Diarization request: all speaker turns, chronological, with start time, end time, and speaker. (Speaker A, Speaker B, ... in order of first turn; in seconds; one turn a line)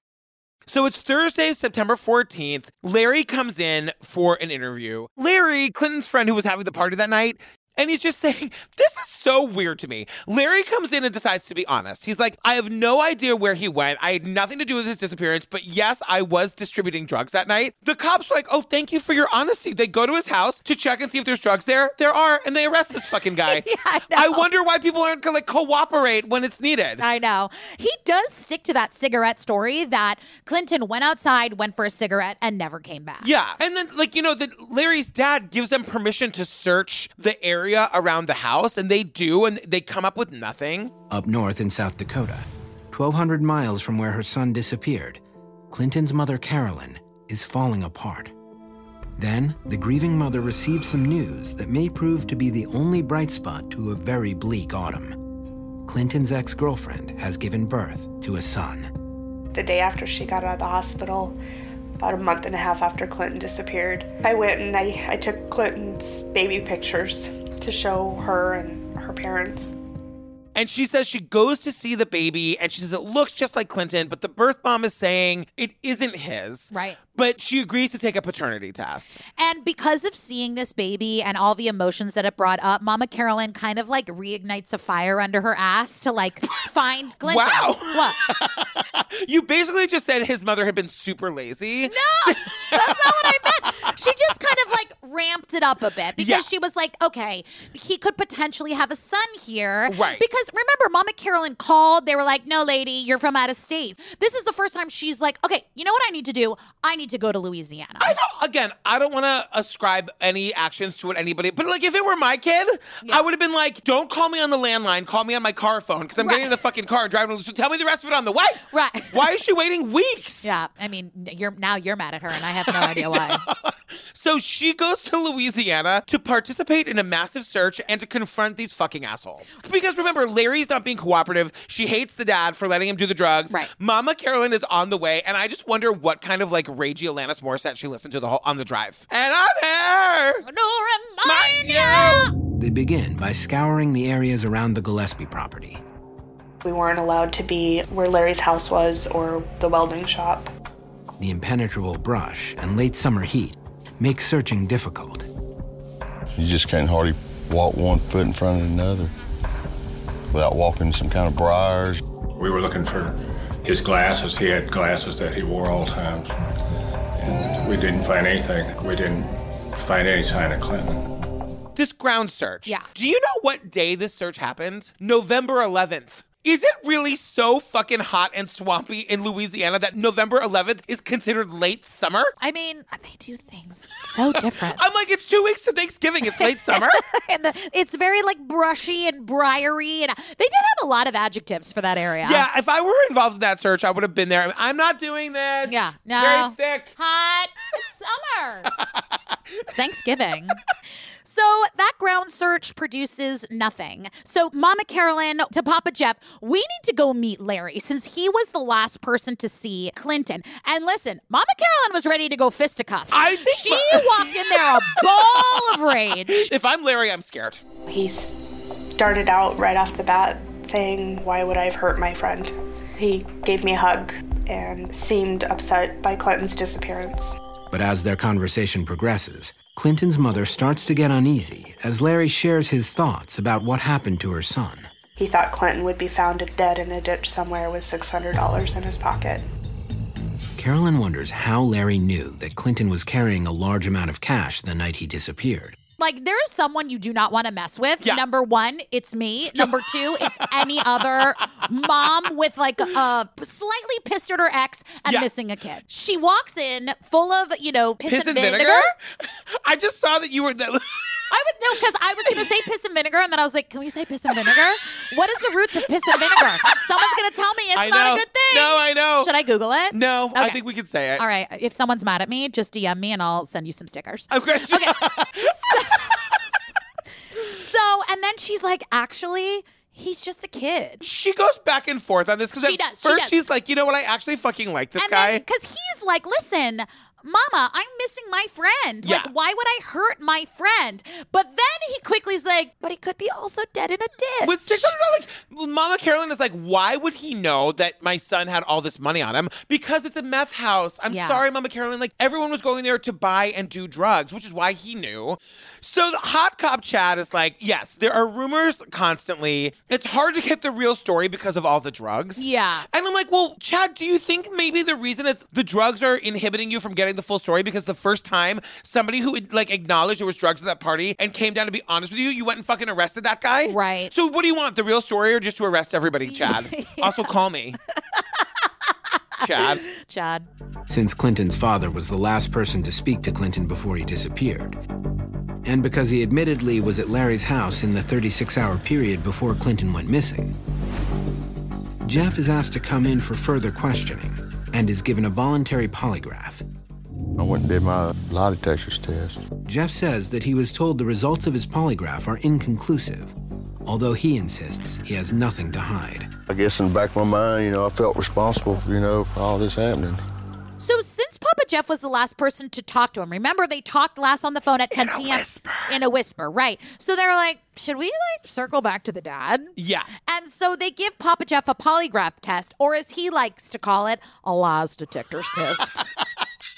Speaker A: 0.7-27.0
Speaker B: 23.1-24.4
Speaker B: 27.0-33.3
Speaker A: 33.2-40.9
Speaker C: 41.1-48.3
Speaker C: 49.2-55.2
Speaker C: 55.8-58.9
Speaker D: 59.5-61.4
Speaker D: 62.0-69.7
Speaker A: 70.5-79.2
Speaker B: 76.7-77.0
Speaker B: 79.4-88.2
Speaker A: 87.2-93.9
Speaker B: 91.8-108.2
Speaker A: 96.2-96.5
Speaker A: 99.9-100.2
Speaker A: 108.0-120.5
Speaker B: 116.2-116.5
Speaker B: 118.7-119.3
Speaker B: 120.4-123.4
Speaker A: 122.6-140.4
Speaker B: 140.4-142.3
Speaker A: 141.2-142.3
Speaker C: 142.6-145.8
Speaker D: 146.6-150.5
Speaker C: 151.2-155.3
Speaker E: 156.3-159.1
Speaker E: 160.3-162.0
Speaker F: 162.3-166.3
Speaker F: 167.1-171.1
Speaker A: 171.7-182.3
Speaker B: 182.4-184.8
Speaker A: 184.3-187.0
Speaker B: 186.3-192.4
Speaker A: 192.2-196.9
Speaker B: 195.7-198.7
Speaker A: 198.8-199.0
Speaker B: 199.6-200.6
Speaker B: 201.2-216.5
Speaker A: 213.1-217.6
Speaker D: 217.9-218.4
Speaker D: 218.9-227.3
Speaker C: 227.7-234.9
Speaker D: 235.2-239.4
Speaker C: 240.6-245.8
Speaker B: 246.0-258.9
Speaker A: 249.5-251.3
Speaker A: 258.1-261.3
Speaker B: 261.3-270.6
Speaker A: 264.3-264.6
Speaker A: 266.1-266.8
Speaker A: 267.7-269.3
Speaker A: 269.9-271.2
Speaker B: 271.1-276.3
Speaker A: 274.3-276.2
Speaker B: 277.4-281.0
Speaker A: 281.0-285.4
Speaker B: 282.6-283.4
Speaker B: 285.0-294.9
Speaker A: 289.0-289.3
Speaker A: 294.4-327.8
Speaker B: 301.1-301.4
Speaker B: 312.4-312.9
Speaker B: 323.7-324.1
Speaker B: 326.3-327.3
Speaker B: 327.9-328.7
Speaker A: 329.4-329.8
Speaker B: 329.4-330.5
Speaker C: 330.9-334.8
Speaker C: 335.6-340.6
Speaker C: 342.0-346.6
Speaker E: 347.4-349.4
Speaker C: 349.6-353.3
Speaker C: 353.9-356.3
Speaker E: 356.5-360.2
Speaker B: 360.8-376.1
Speaker A: 364.9-366.0
Speaker A: 369.8-370.1